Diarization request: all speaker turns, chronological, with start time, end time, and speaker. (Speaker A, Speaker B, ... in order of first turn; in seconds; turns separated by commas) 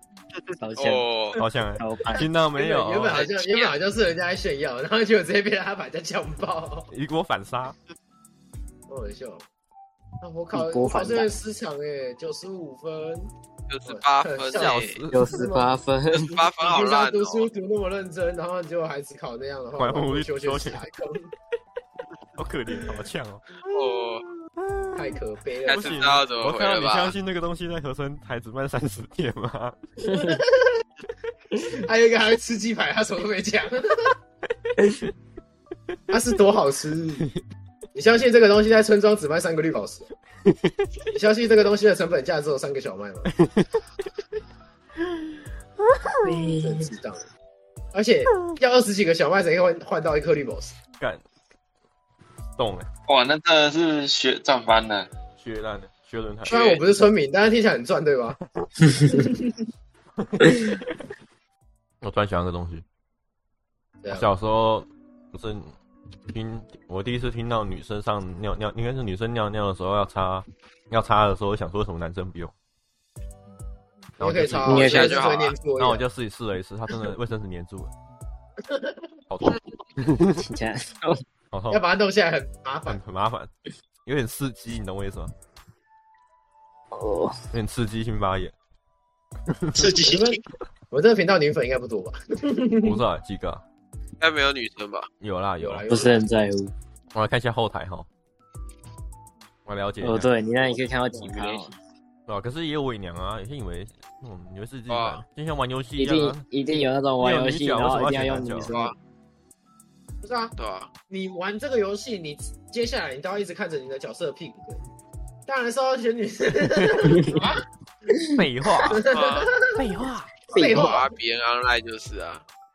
Speaker A: 0.6-2.3, Speaker B: 0.8-1.4, Speaker C: 1.4-3.2, Speaker D: 2.2-6.9, Speaker B: 3.1-3.7, Speaker C: 6.9-7.7, Speaker D: 8.9-9.4, Speaker D: 10.2-13.3, Speaker A: 10.5-11.3, Speaker B: 13.7-15.0, Speaker D: 13.8-15.8, Speaker C: 14.5-15.5, Speaker A: 15.1-16.4, Speaker B: 16.1-17.5, Speaker D: 16.5-21.3, Speaker C: 19.8-20.8, Speaker C: 22.4-23.4, Speaker B: 23.6-24.2, Speaker D: 24.9-26.1, Speaker B: 25.6-27.1, Speaker C: 25.7-29.8, Speaker D: 30.0-30.8, Speaker D: 31.6-34.1, Speaker D: 36.1-37.3, Speaker D: 37.9-40.1, Speaker C: 40.5-40.8, Speaker D: 41.0-43.3, Speaker C: 43.3-43.7, Speaker A: 46.2-46.9, Speaker D: 46.6-47.2, Speaker D: 47.9-50.8, Speaker C: 52.6-52.9, Speaker E: 53.1-55.1, Speaker C: 55.4-56.6, Speaker D: 56.5-58.4, Speaker B: 56.5-56.8, Speaker D: 59.0-59.6, Speaker C: 60.2-60.8, Speaker C: 62.0-62.8, Speaker D: 64.0-64.3, Speaker C: 64.1-65.7, Speaker C: 66.3-72.5, Speaker C: 74.2-75.0, Speaker D: 74.2-76.0, Speaker A: 74.7-75.2, Speaker B: 74.7-75.5, Speaker C: 75.8-77.9, Speaker D: 78.6-79.0, Speaker C: 79.3-80.5, Speaker A: 80.4-81.2, Speaker C: 81.5-81.8, Speaker D: 81.7-83.0, Speaker C: 82.9-83.5, Speaker C: 84.0-85.3, Speaker A: 86.9-87.4, Speaker C: 87.5-88.5, Speaker C: 89.5-89.9, Speaker E: 89.7-90.4, Speaker D: 89.9-93.0, Speaker C: 92.8-93.6, Speaker B: 94.2-95.1, Speaker C: 95.2-95.8, Speaker D: 95.6-96.3, Speaker A: 95.9-96.7, Speaker C: 97.1-98.0, Speaker C: 99.7-100.3, Speaker A: 100.0-101.7, Speaker E: 101.1-101.7, Speaker C: 102.3-106.4, Speaker B: 104.9-105.2, Speaker A: 106.0-108.9, Speaker C: 107.2-108.7, Speaker B: 108.7-108.9, Speaker D: 110.2-110.5, Speaker B: 110.6-110.9, Speaker D: 111.1-114.8, Speaker D: 115.5-117.6, Speaker C: 116.8-117.0, Speaker C: 118.3-119.1, Speaker D: 118.8-119.8, Speaker B: 119.1-119.5, Speaker C: 119.7-120.3, Speaker D: 120.5-121.1, Speaker B: 120.5-122.4, Speaker A: 120.5-120.9